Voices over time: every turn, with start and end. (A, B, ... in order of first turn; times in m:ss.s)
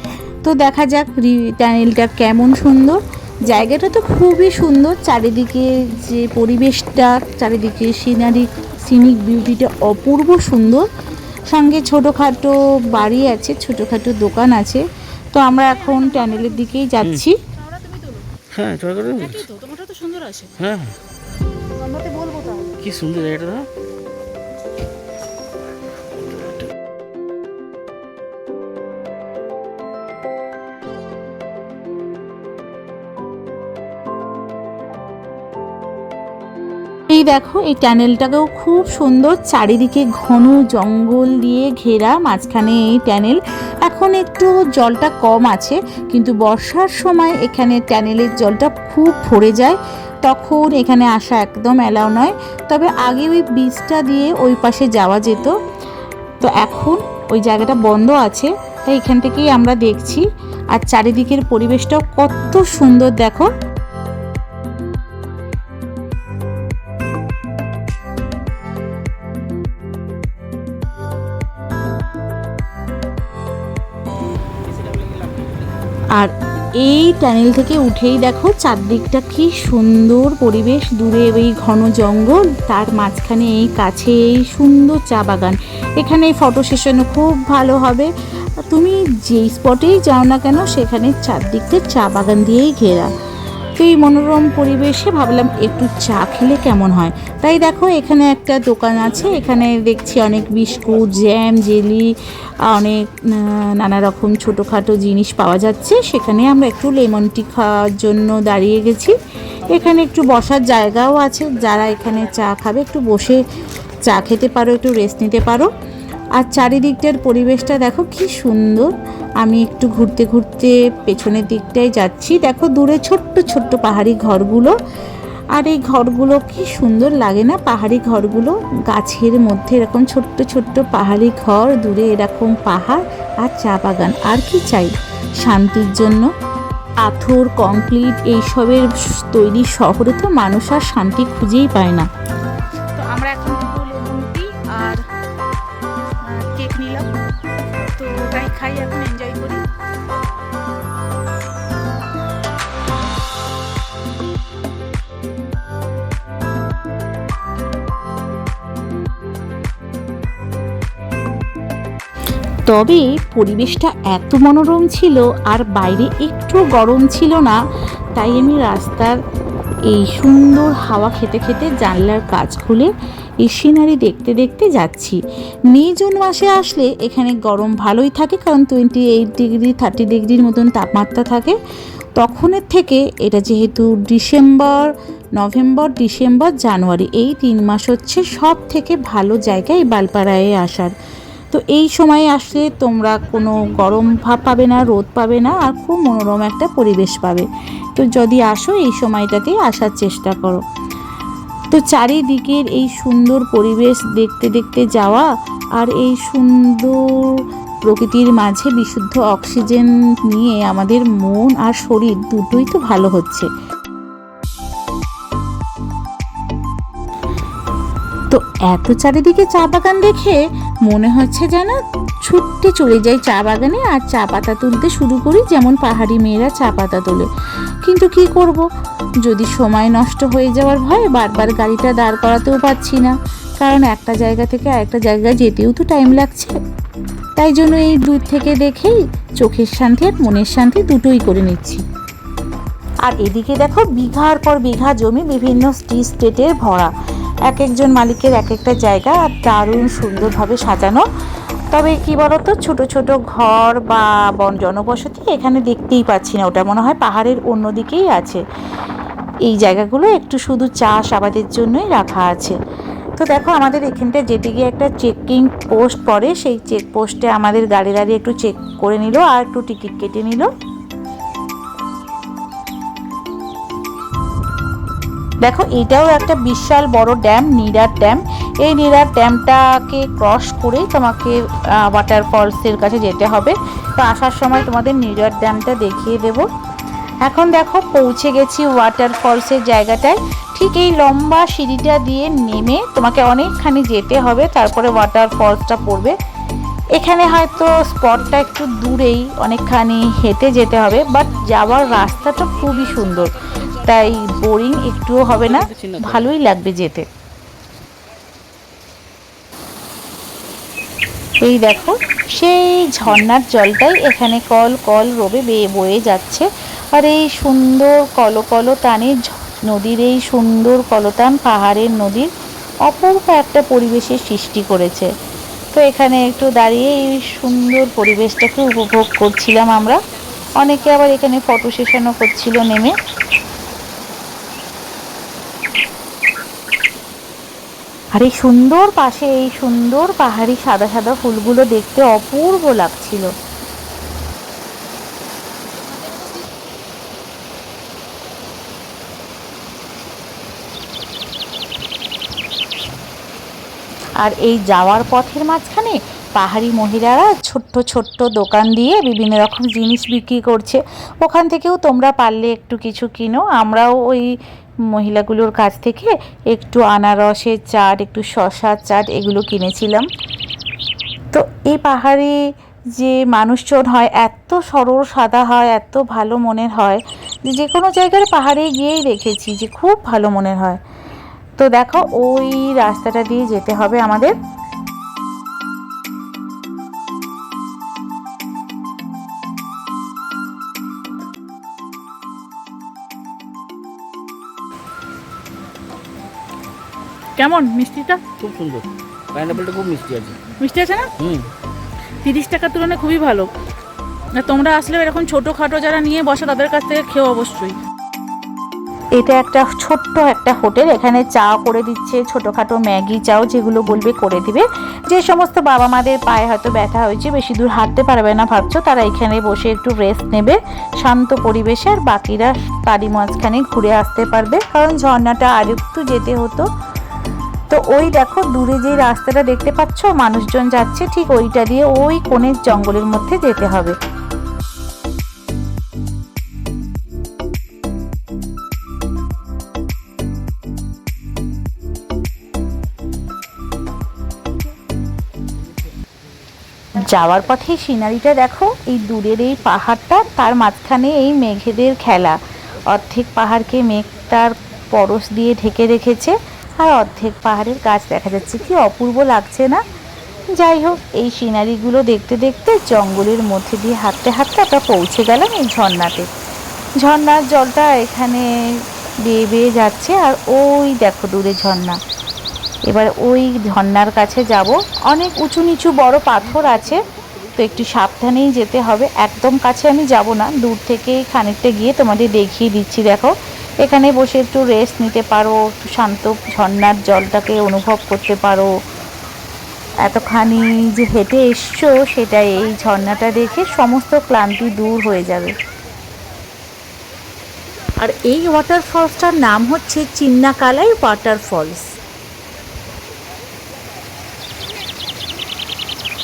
0:00.4-0:10.9 A
0:11.5-0:17.4 A
0:15.6-0:16.8 B
0:17.0-0:17.2 C
0:17.5-0:18.3 B
0:18.5-0:19.4 C
0:19.1-0:20.6 B
0:20.6-0:21.0 C
0:21.8-0:22.7 B
0:22.8-0:23.7 C
0:37.1-0:55.5 A
0:56.4-1:03.5 A
1:16.1-1:33.1 A
1:33.8-1:49.1 A
1:49.7-1:53.4 A
1:54.0-1:55.7 A
1:56.4-2:04.8 A
2:05.5-2:16.3 A
2:17.0-2:22.1 A
2:23.0-2:25.0 B
2:26.2-2:27.1 B
2:27.9-2:29.6 B
2:42.6-2:47.6 A
2:48.1-2:49.2 A
2:49.9-3:01.6 A
3:02.2-3:10.9 A
3:11.5-3:20.6 A
3:21.7-3:33.5 A
3:38.3-3:47.3 A
3:47.8-3:48.7 A
3:49.2-3:56.6 A
3:57.4-4:01.8 A
4:03.0-4:06.9 A
4:07.5-4:11.0 A
4:11.7-4:18.4 A
4:19.4-4:22.6 A
4:23.2-4:30.5 A
4:35.4-4:46.4 A
4:47.2-4:56.2 A
4:57.0-5:07.1 A
5:05.4-5:06.3 C
5:11.4-5:22.3 A
5:22.8-5:25.1 A
5:25.7-5:30.0 A
5:30.5-5:32.9 A
5:38.1-5:43.3 A
5:54.2-6:04.3 A
6:04.9-6:10.1 A
6:11.3-6:12.4 A
6:13.0-6:20.8 A
6:21.6-6:24.4 A
6:37.4-6:38.2 B
6:38.4-6:40.4 C
6:40.6-6:41.1 B
6:41.2-6:41.4 C
6:42.2-6:43.5 B
6:44.3-6:47.8 B
6:49.1-7:06.7 A
7:07.7-7:14.0 A
7:26.9-7:39.8 A
7:40.5-7:46.3 A
7:47.0-7:52.0 A
7:52.9-7:57.0 A
7:57.5-8:08.7 A
8:10.0-8:15.6 A
8:18.0-8:21.9 A